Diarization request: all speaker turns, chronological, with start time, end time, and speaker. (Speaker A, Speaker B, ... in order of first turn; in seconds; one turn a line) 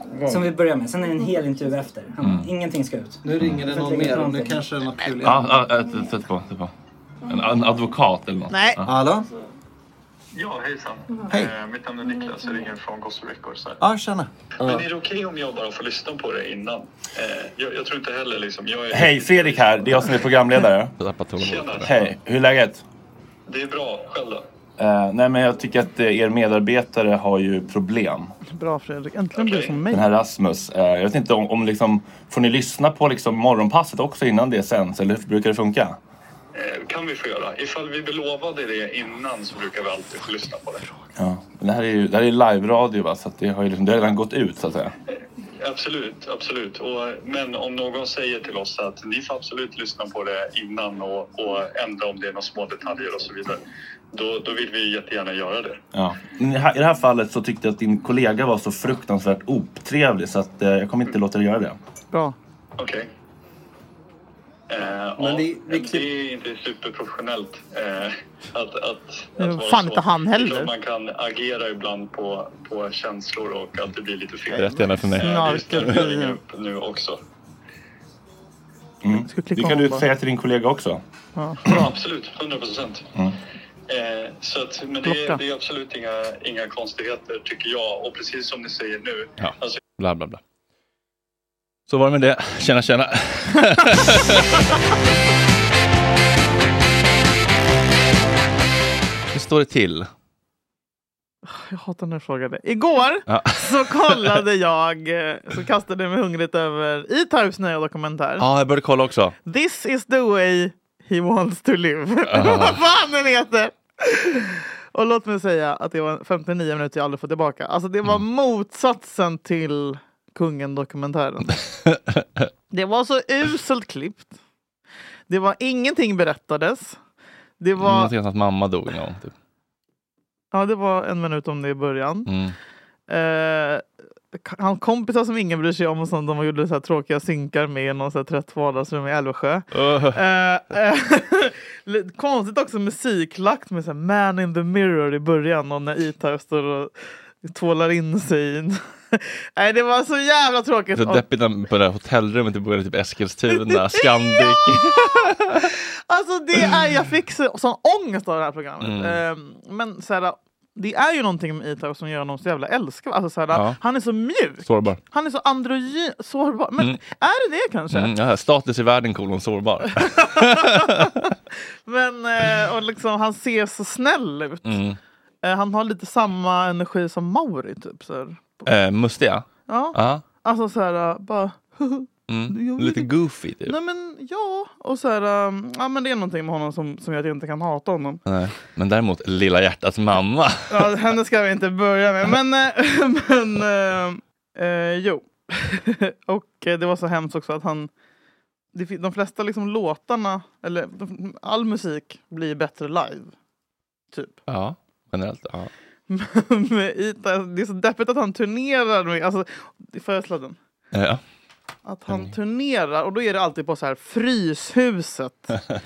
Speaker A: 0.3-4.6
Speaker B: 2.2-2.5
Speaker C: 3.2-5.4
Speaker B: 5.2-6.7
Speaker B: 7.2-8.9
Speaker D: 8.5-8.8
Speaker C: 8.8-9.3
Speaker E: 10.3-13.8
Speaker C: 13.8-14.8
Speaker E: 14.6-20.2
Speaker B: 18.9-22.8
Speaker E: 21.4-22.1
Speaker E: 23.5-24.4
Speaker B: 24.8-28.3
Speaker D: 28.5-30.1
Speaker E: 29.4-29.8
Speaker B: 29.9-36.0
Speaker E: 36.5-40.9
Speaker B: 41.1-44.9
Speaker E: 45.6-53.6
Speaker E: 54.1-55.8
Speaker B: 55.9-61.8
Speaker E: 62.8-63.1
Speaker E: 64.7-77.2
Speaker C: 65.2-66.1
Speaker D: 69.4-70.7
Speaker B: 74.5-76.0
Speaker D: 75.2-76.4
Speaker B: 79.0-81.0
Speaker D: 79.3-80.0
Speaker D: 81.3-81.7
Speaker E: 81.7-83.1
Speaker E: 83.9-89.8
Speaker D: 85.0-85.4
Speaker B: 89.4-90.4
Speaker B: 91.9-94.7
Speaker B: 99.3-100.1
Speaker D: 101.4-108.5
Speaker B: 103.3-104.4
Speaker B: 108.4-109.3
Speaker D: 109.5-121.5
Speaker B: 112.3-112.8
Speaker B: 121.8-122.5
Speaker D: 122.7-124.3
Speaker D: 125.3-127.0
Speaker D: 127.6-128.1
Speaker B: 127.8-129.3
Speaker D: 130.5-132.3
Speaker B: 132.3-132.5
Speaker D: 133.1-146.9
Speaker B: 139.7-140.2
Speaker D: 147.4-151.2
Speaker B: 150.9-155.7
Speaker D: 153.5-168.1
Speaker B: 158.8-159.2
Speaker B: 163.5-163.8
Speaker B: 164.6-165.0
Speaker B: 167.9-171.1
Speaker D: 170.0-171.1
Speaker D: 171.8-174.7
Speaker B: 174.6-175.0
Speaker D: 175.4-178.6
Speaker B: 178.6-180.2
Speaker D: 179.7-183.1
Speaker B: 182.3-183.7
Speaker D: 183.6-188.2
Speaker B: 188.3-191.0
Speaker D: 190.7-197.9
Speaker D: 198.7-203.3
Speaker B: 204.5-205.7
Speaker D: 206.1-210.6
Speaker B: 210.9-211.2
Speaker D: 211.8-215.6